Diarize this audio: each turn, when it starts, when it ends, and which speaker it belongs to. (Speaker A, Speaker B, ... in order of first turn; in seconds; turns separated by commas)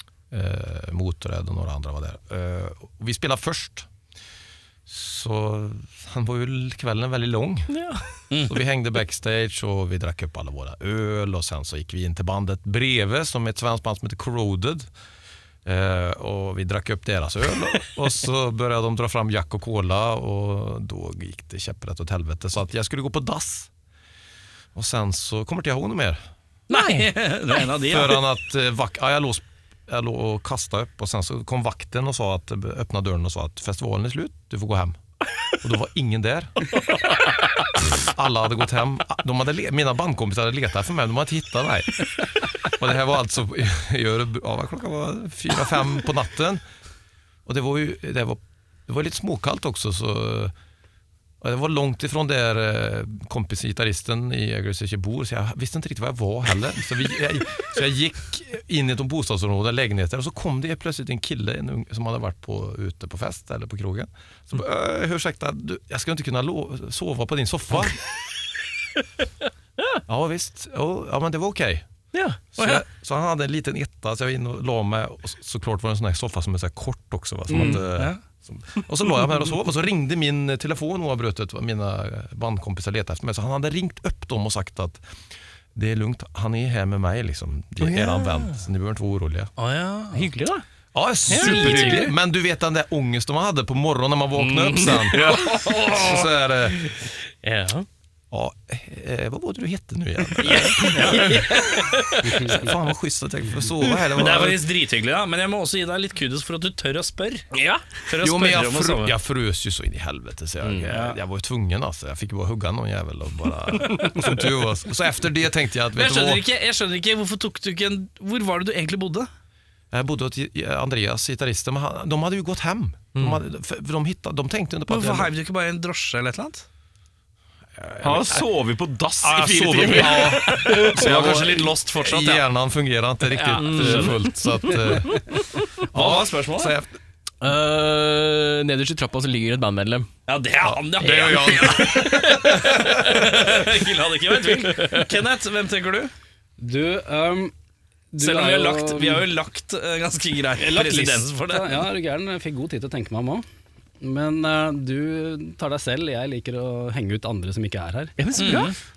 Speaker A: 0.3-3.9, Speaker A: 4.9-7.8, Speaker B: 7.7-8.0, Speaker C: 8.3-8.6, Speaker A: 8.5-14.9, Speaker A: 15.6-23.7, Speaker A: 24.7-26.2, Speaker B: 26.7-27.1, Speaker C: 26.7-28.2, Speaker A: 27.8-35.0, Speaker A: 35.6-36.7, Speaker A: 38.0-46.6, Speaker A: 47.5-50.5, Speaker A: 51.4-68.0, Speaker A: 70.1-71.8, Speaker B: 72.1-72.4, Speaker A: 72.5-85.0, Speaker C: 72.6-72.8, Speaker D: 77.5-77.8, Speaker C: 77.5-78.2, Speaker A: 85.7-89.5, Speaker B: 87.8-88.5, Speaker C: 89.6-90.3, Speaker B: 90.1-90.6, Speaker A: 90.9-96.8, Speaker B: 91.3-92.1, Speaker D: 91.5-91.9, Speaker B: 94.3-95.3, Speaker C: 95.1-96.3, Speaker B: 97.4-97.9, Speaker A: 98.3-104.7, Speaker B: 100.4-102.6, Speaker C: 104.1-107.5, Speaker B: 107.5-107.8, Speaker C: 108.0-109.1, Speaker A: 108.2-116.4, Speaker C: 110.9-111.2, Speaker C: 116.0-119.3, Speaker A: 119.9-125.3, Speaker B: 123.1-123.4, Speaker C: 124.9-126.7, Speaker A: 127.8-128.4, Speaker E: 128.0-131.5, Speaker A: 129.2-136.9, Speaker C: 130.4-132.4, Speaker C: 133.3-134.2, Speaker B: 133.5-135.6, Speaker C: 135.9-136.8, Speaker B: 137.4-140.1, Speaker C: 140.3-146.1, Speaker A: 140.6-143.2, Speaker B: 144.6-145.1, Speaker D: 146.6-147.5, Speaker D: 148.1-149.3, Speaker C: 148.2-151.9, Speaker D: 150.6-153.4, Speaker D: 154.0-158.7, Speaker B: 158.2-158.7, Speaker C: 158.4-158.8